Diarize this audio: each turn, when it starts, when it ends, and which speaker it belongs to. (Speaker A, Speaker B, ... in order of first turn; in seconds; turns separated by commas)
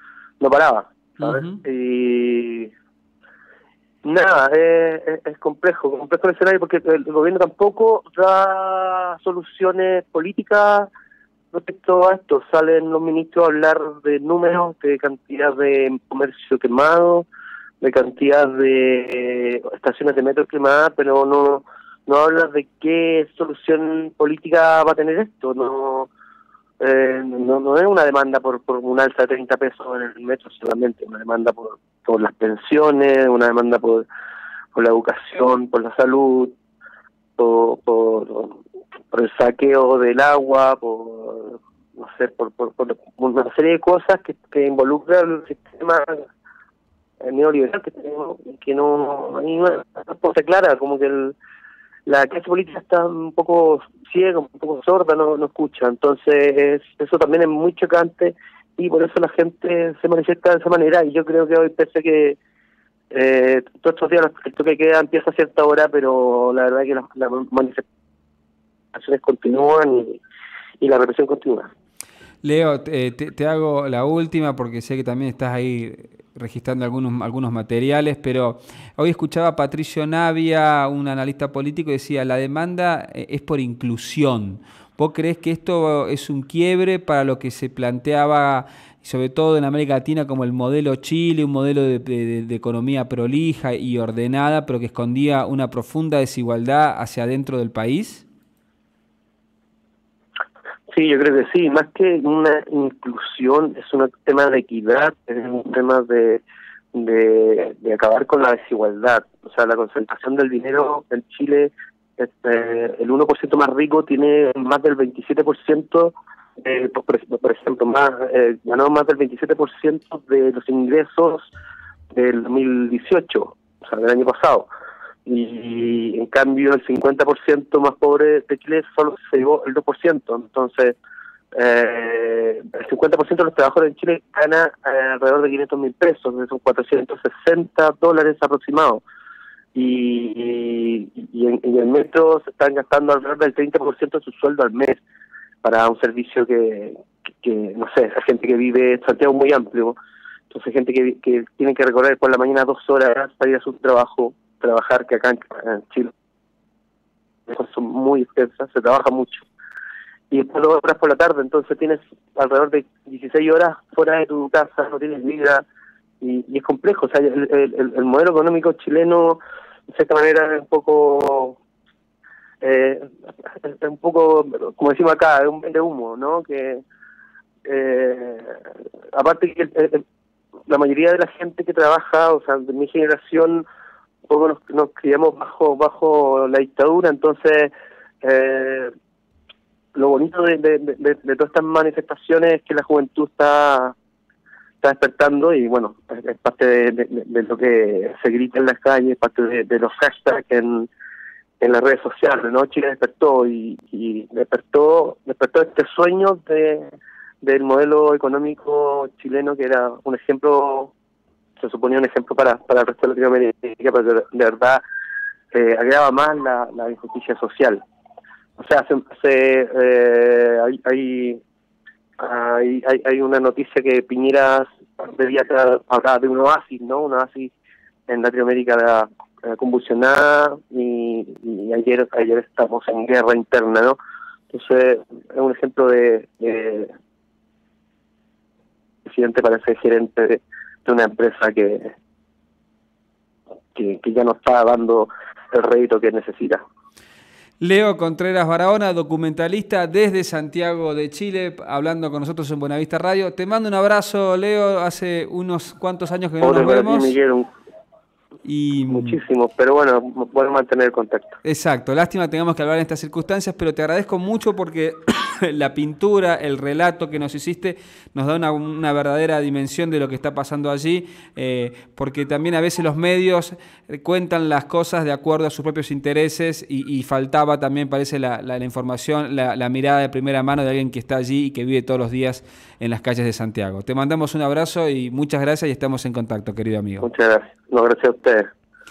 Speaker A: 0.4-2.7, Speaker B: 1.2-1.6, Speaker A: 4.0-10.9, Speaker A: 11.5-17.3, Speaker A: 17.8-26.1, Speaker A: 26.8-34.0, Speaker A: 34.7-36.5, Speaker A: 37.4-38.6, Speaker A: 39.1-46.2, Speaker A: 47.2-51.4, Speaker A: 52.0-62.4, Speaker A: 63.1-67.8, Speaker A: 68.9-70.2, Speaker A: 70.8-71.7, Speaker B: 72.4-98.2, Speaker A: 100.9-121.5, Speaker A: 122.1-124.7, Speaker A: 125.2-130.9, Speaker A: 131.5-139.0, Speaker A: 139.7-145.0, Speaker A: 145.6-150.0, Speaker A: 150.5-156.1, Speaker A: 157.5-159.4, Speaker A: 160.3-165.6, Speaker A: 166.2-171.6, Speaker A: 172.6-176.8, Speaker A: 177.6-180.0, Speaker A: 180.7-183.7, Speaker A: 184.3-188.9, Speaker A: 189.9-193.9, Speaker A: 194.8-200.9, Speaker A: 201.6-206.9, Speaker A: 207.4-210.9, Speaker A: 211.6-214.8, Speaker A: 215.5-217.8, Speaker A: 218.6-221.4, Speaker A: 222.2-227.5, Speaker A: 228.1-234.0, Speaker A: 234.5-236.9, Speaker A: 239.0-241.9, Speaker A: 243.7-246.6, Speaker B: 247.6-257.1, Speaker A: 256.4-257.5, Speaker B: 258.4-259.2, Speaker A: 258.9-261.4, Speaker B: 261.4-287.1, Speaker A: 287.0-288.5